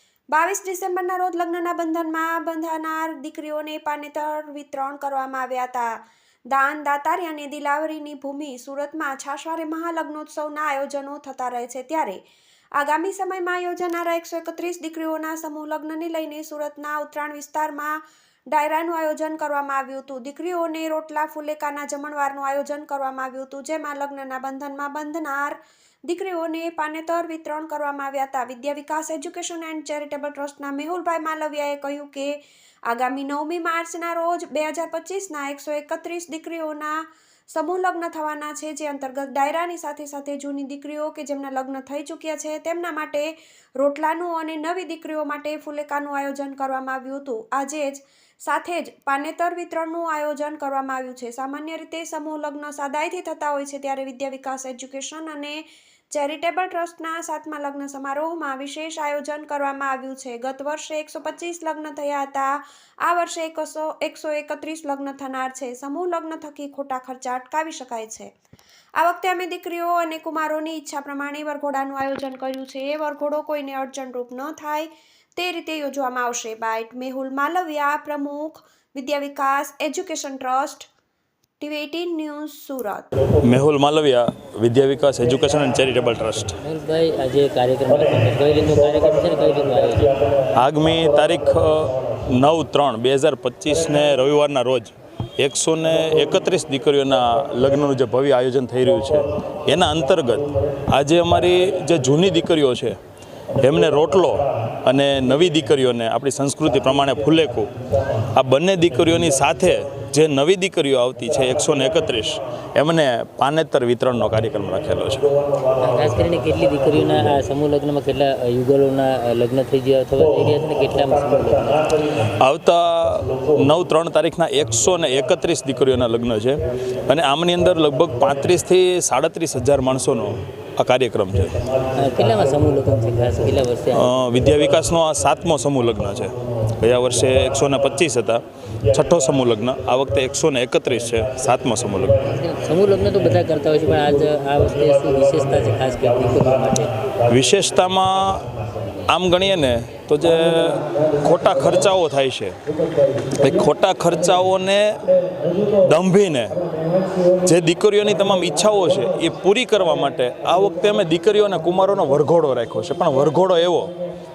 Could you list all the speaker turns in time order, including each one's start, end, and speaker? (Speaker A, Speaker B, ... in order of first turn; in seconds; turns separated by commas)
Speaker A: 0.3-6.0, Speaker A: 6.5-12.2, Speaker A: 12.8-18.0, Speaker A: 18.5-68.3, Speaker A: 69.0-80.9, Speaker A: 81.6-83.1, Speaker B: 83.4-86.6, Speaker C: 86.6-90.2, Speaker B: 90.5-103.0, Speaker B: 103.5-115.4, Speaker C: 115.8-121.9, Speaker B: 122.2-131.6, Speaker C: 132.0-134.1, Speaker B: 133.9-142.2, Speaker C: 142.2-146.9, Speaker B: 147.3-148.5, Speaker B: 149.1-152.6, Speaker B: 153.3-155.1, Speaker B: 155.8-156.6, Speaker B: 157.4-163.9